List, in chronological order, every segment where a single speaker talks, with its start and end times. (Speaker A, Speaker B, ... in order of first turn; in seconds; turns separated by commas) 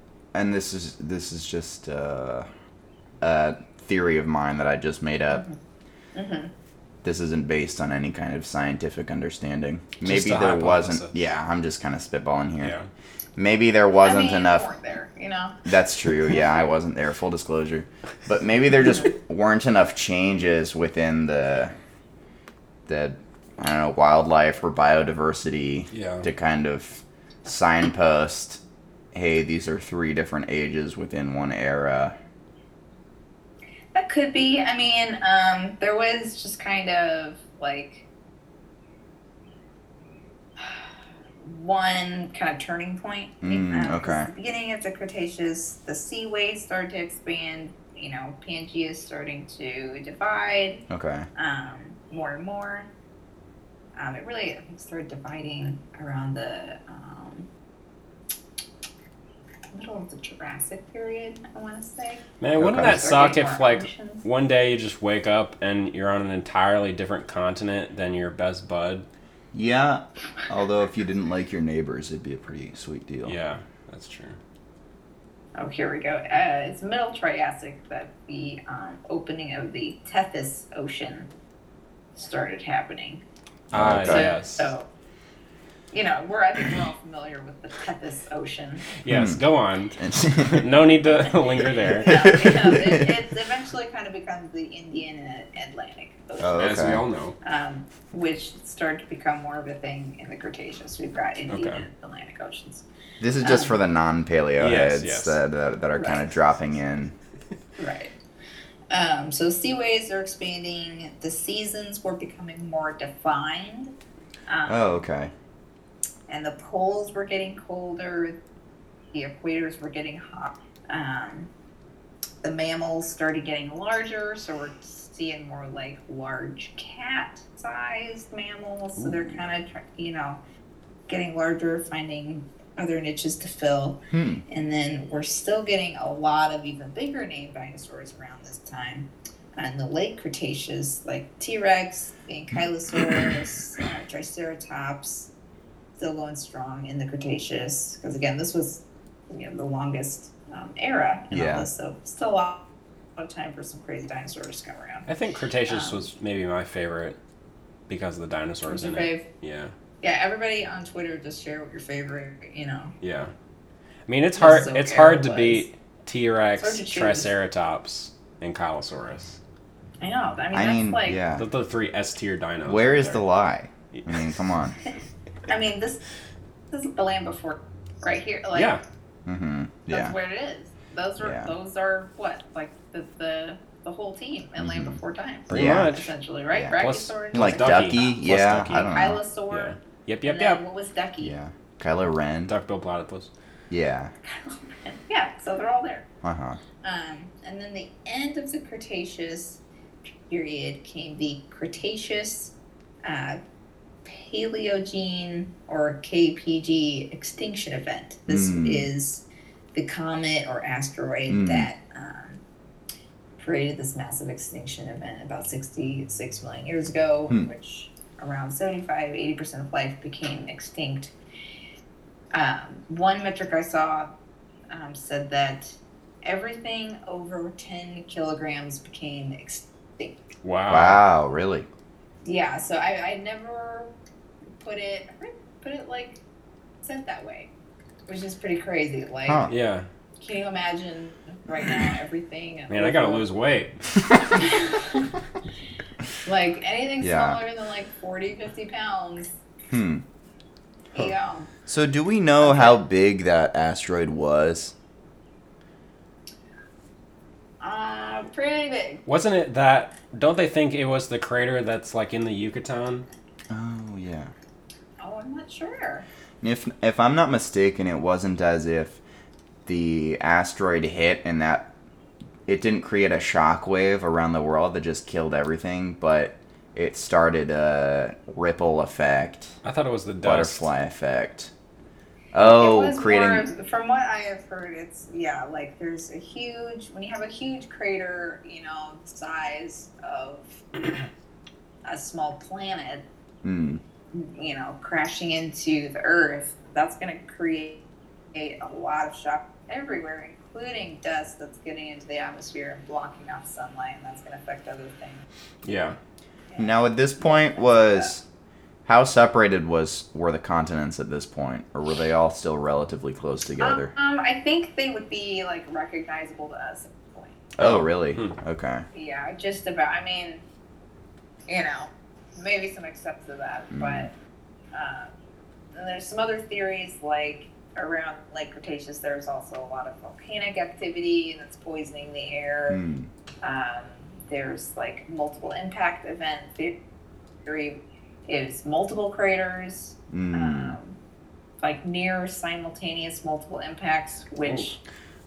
Speaker A: 0.3-2.5, Speaker A: 3.2-5.4, Speaker B: 5.3-5.6, Speaker B: 6.1-6.5, Speaker A: 7.0-12.8, Speaker C: 10.0-11.2, Speaker C: 12.6-12.9, Speaker A: 13.4-14.7, Speaker B: 14.0-15.7, Speaker A: 15.7-21.7, Speaker A: 22.9-28.6, Speaker C: 25.9-26.3, Speaker A: 29.1-32.1, Speaker B: 33.9-38.1, Speaker B: 40.6-40.9, Speaker B: 41.4-50.9, Speaker A: 43.4-44.3, Speaker A: 50.9-51.3, Speaker B: 51.4-52.9, Speaker B: 54.0-57.5, Speaker B: 59.7-64.2, Speaker C: 62.4-69.1, Speaker A: 62.6-63.0, Speaker A: 69.5-73.3, Speaker C: 73.2-74.4, Speaker B: 75.6-81.3, Speaker B: 82.2-83.2, Speaker A: 83.7-84.3, Speaker C: 83.7-84.7, Speaker B: 84.0-84.9, Speaker B: 85.9-88.9, Speaker C: 89.0-92.3, Speaker A: 89.1-89.4, Speaker A: 90.0-90.7, Speaker B: 91.2-96.8, Speaker A: 92.0-93.1, Speaker A: 96.4-97.0, Speaker C: 96.6-97.4, Speaker B: 97.4-102.8, Speaker C: 101.5-101.8, Speaker A: 103.2-107.1, Speaker B: 103.4-103.8, Speaker C: 104.6-105.4, Speaker B: 106.0-106.2, Speaker B: 107.8-108.1, Speaker B: 108.9-113.9, Speaker B: 114.5-114.9, Speaker A: 114.7-115.3, Speaker B: 116.3-118.4, Speaker B: 119.1-121.5, Speaker B: 122.4-130.4, Speaker B: 131.1-145.3, Speaker A: 134.1-134.4, Speaker A: 143.1-143.3, Speaker B: 146.0-155.1, Speaker A: 151.3-151.7, Speaker C: 155.1-157.2, Speaker B: 155.7-156.1, Speaker C: 157.9-159.7, Speaker B: 158.6-159.3, Speaker B: 160.0-162.9, Speaker C: 163.0-163.3, Speaker C: 164.1-169.4, Speaker B: 164.4-165.7, Speaker B: 166.6-167.3, Speaker B: 170.0-171.2, Speaker A: 170.5-171.5, Speaker C: 171.4-173.2, Speaker A: 172.7-174.8, Speaker C: 173.9-174.2, Speaker B: 175.5-176.0, Speaker B: 176.7-178.8, Speaker C: 178.5-178.8, Speaker A: 179.3-180.2, Speaker B: 179.9-188.2, Speaker A: 181.2-181.5, Speaker A: 184.6-185.0, Speaker A: 185.5-185.9, Speaker C: 185.5-186.1, Speaker A: 186.5-189.2, Speaker C: 186.7-188.9, Speaker B: 188.8-191.3, Speaker C: 189.5-190.6, Speaker A: 191.2-192.5, Speaker C: 192.5-193.3, Speaker A: 193.7-194.1, Speaker B: 194.2-196.1, Speaker A: 196.2-196.6, Speaker B: 196.8-199.6, Speaker B: 200.3-202.5, Speaker B: 203.0-203.4, Speaker B: 204.1-212.4, Speaker A: 208.3-208.9, Speaker A: 211.3-211.7, Speaker B: 213.4-221.1, Speaker B: 222.3-224.1, Speaker B: 224.7-230.3, Speaker C: 230.4-231.0, Speaker A: 230.7-231.7, Speaker B: 232.2-233.9, Speaker B: 234.6-236.2, Speaker B: 236.8-237.5, Speaker B: 238.1-239.5, Speaker A: 239.3-239.5, Speaker C: 239.5-239.9, Speaker B: 240.2-243.3, Speaker C: 242.7-243.8, Speaker B: 244.2-245.1, Speaker B: 246.2-249.3, Speaker A: 247.0-247.4, Speaker A: 249.7-250.0, Speaker B: 250.9-251.5, Speaker A: 251.7-254.7, Speaker B: 252.4-252.8, Speaker B: 257.6-259.0, Speaker C: 259.1-263.1, Speaker A: 263.5-264.3, Speaker B: 265.0-266.1, Speaker A: 266.4-269.0, Speaker A: 269.7-271.7, Speaker A: 272.5-279.6, Speaker C: 279.6-280.7, Speaker A: 280.2-281.5, Speaker A: 282.3-283.5, Speaker B: 282.4-290.6, Speaker B: 291.8-293.1, Speaker A: 293.4-293.8, Speaker B: 294.1-305.2, Speaker C: 305.6-306.0, Speaker B: 306.5-308.1, Speaker A: 306.6-308.2, Speaker A: 308.9-313.9, Speaker B: 313.6-317.5, Speaker A: 317.6-318.9, Speaker C: 317.6-318.4, Speaker B: 318.9-320.4, Speaker B: 321.5-324.1, Speaker A: 323.7-324.1, Speaker B: 324.7-325.1, Speaker B: 325.7-332.8, Speaker A: 332.7-333.1, Speaker B: 333.4-336.8, Speaker B: 337.4-341.0, Speaker A: 340.1-340.8, Speaker B: 341.6-344.8, Speaker C: 344.4-344.7